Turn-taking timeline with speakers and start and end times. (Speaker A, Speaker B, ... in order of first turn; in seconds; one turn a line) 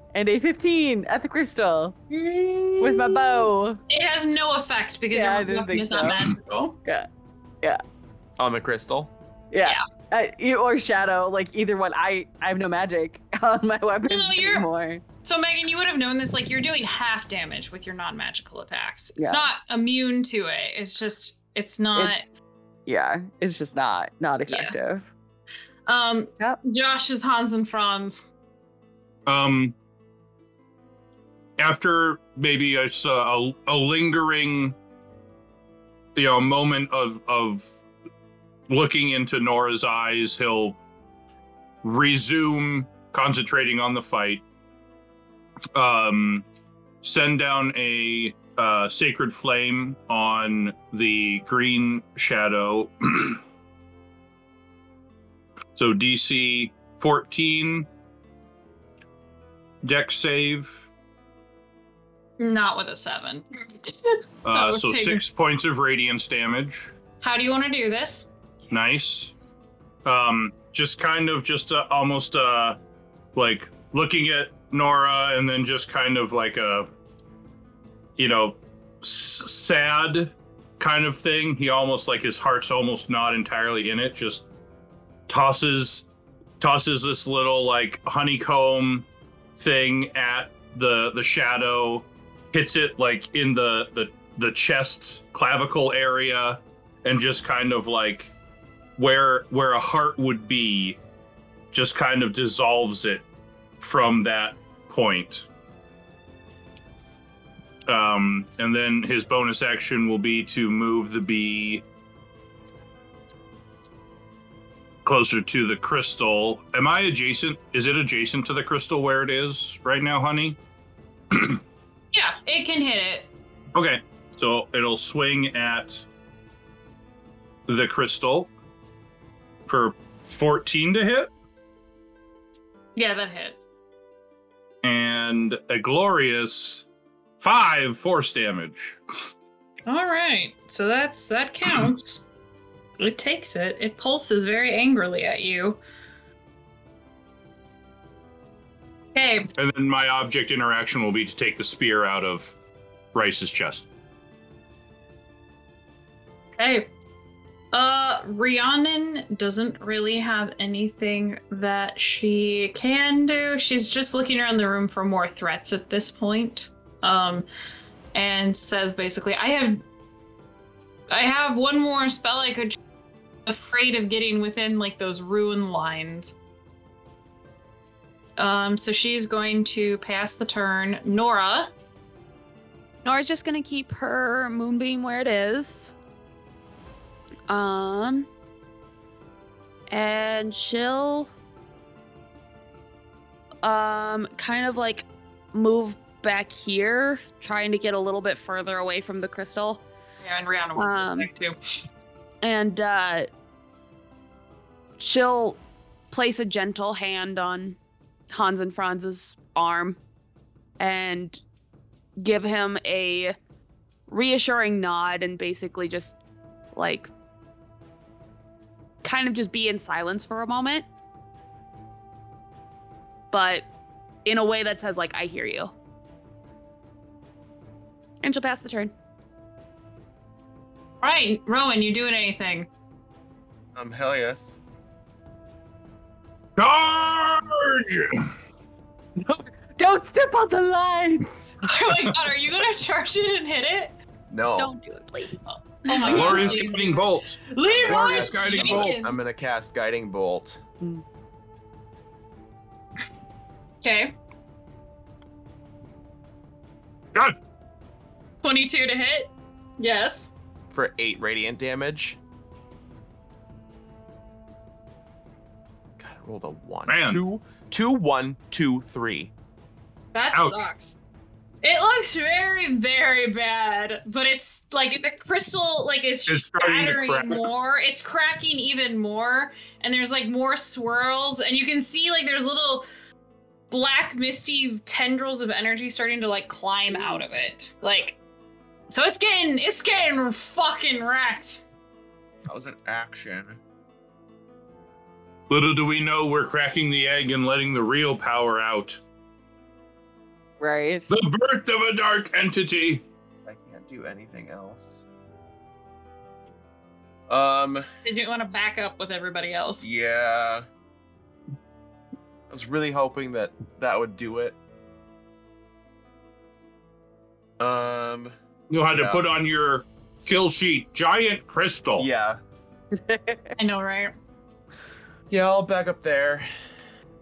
Speaker A: 0.1-2.0
Speaker B: 2.1-6.8
Speaker A: 2.8-3.8
Speaker A: 5.1-6.2
Speaker C: 8.4-9.1
Speaker A: 9.5-15.0
Speaker B: 14.1-14.7
Speaker B: 15.2-22.3
Speaker A: 19.2-19.5
Speaker A: 21.9-22.3
Speaker A: 22.9-25.1
Speaker B: 24.5-24.8
Speaker B: 25.9-28.3
Speaker D: 29.3-29.8
Speaker D: 31.6-34.8
Speaker D: 36.1-37.7
Speaker D: 38.7-40.8
Speaker D: 41.8-44.4
Speaker D: 45.7-46.5
Speaker D: 47.0-53.4
Speaker D: 55.8-57.9
Speaker D: 59.8-60.9
Speaker B: 62.4-65.2
Speaker D: 64.5-66.9
Speaker B: 67.2-68.3
Speaker C: 68.7-69.5
Speaker D: 68.7-69.3
Speaker D: 70.0-72.8
Speaker D: 73.3-76.9
Speaker D: 78.2-84.5
Speaker D: 85.3-86.1
Speaker D: 86.6-98.3
Speaker D: 99.0-101.0
Speaker D: 101.7-103.3
Speaker D: 103.8-105.5
Speaker D: 107.9-111.8
Speaker D: 115.0-120.6
Speaker D: 121.3-121.6
Speaker B: 122.1-123.3
Speaker D: 123.7-126.1
Speaker D: 127.7-128.5
Speaker D: 129.7-131.3
Speaker B: 133.0-133.6
Speaker D: 134.8-136.8
Speaker D: 137.4-139.0
Speaker B: 139.9-142.2
Speaker B: 143.0-145.8
Speaker B: 149.2-149.5
Speaker D: 149.6-152.6
Speaker D: 153.1-153.9
Speaker B: 156.6-156.9
Speaker B: 157.7-167.5
Speaker B: 168.1-169.8
Speaker B: 171.1-172.8
Speaker B: 173.5-176.3
Speaker B: 178.4-181.7
Speaker E: 183.1-185.9
Speaker E: 187.5-188.3
Speaker E: 189.9-191.3
Speaker E: 193.6-199.8
Speaker B: 200.2-201.6
Speaker E: 200.8-201.3
Speaker E: 202.4-203.3
Speaker E: 205.0-205.6
Speaker E: 206.1-207.8
Speaker E: 208.3-210.0
Speaker E: 210.8-211.4
Speaker E: 212.2-213.4
Speaker E: 214.1-216.2
Speaker E: 216.7-217.1
Speaker E: 219.0-220.9
Speaker E: 223.3-223.7
Speaker E: 224.2-225.7
Speaker E: 228.2-228.9
Speaker B: 231.0-232.7
Speaker C: 233.8-234.6
Speaker D: 236.6-238.3
Speaker A: 239.2-241.6
Speaker B: 241.6-244.0
Speaker C: 244.3-244.7
Speaker E: 244.6-246.0
Speaker B: 245.5-249.2
Speaker D: 246.0-249.0
Speaker C: 246.1-246.8
Speaker C: 247.6-250.6
Speaker B: 253.8-254.2
Speaker B: 258.4-260.3
Speaker C: 260.7-262.2
Speaker C: 266.0-269.3
Speaker D: 266.9-267.2
Speaker B: 270.1-271.0
Speaker D: 270.3-270.7
Speaker B: 271.6-282.9
Speaker D: 276.3-277.4
Speaker B: 283.7-288.2
Speaker B: 288.9-291.6
Speaker C: 292.5-293.6
Speaker D: 295.5-299.0
Speaker A: 300.6-301.1
Speaker D: 301.1-303.0
Speaker C: 303.5-305.1
Speaker C: 307.3-307.9
Speaker B: 308.1-309.9
Speaker C: 309.8-310.7
Speaker C: 312.5-314.6
Speaker C: 317.6-318.3
Speaker D: 318.7-322.1
Speaker C: 318.9-319.3
Speaker C: 322.0-322.4
Speaker A: 322.9-323.5
Speaker B: 323.6-324.1
Speaker C: 325.3-326.5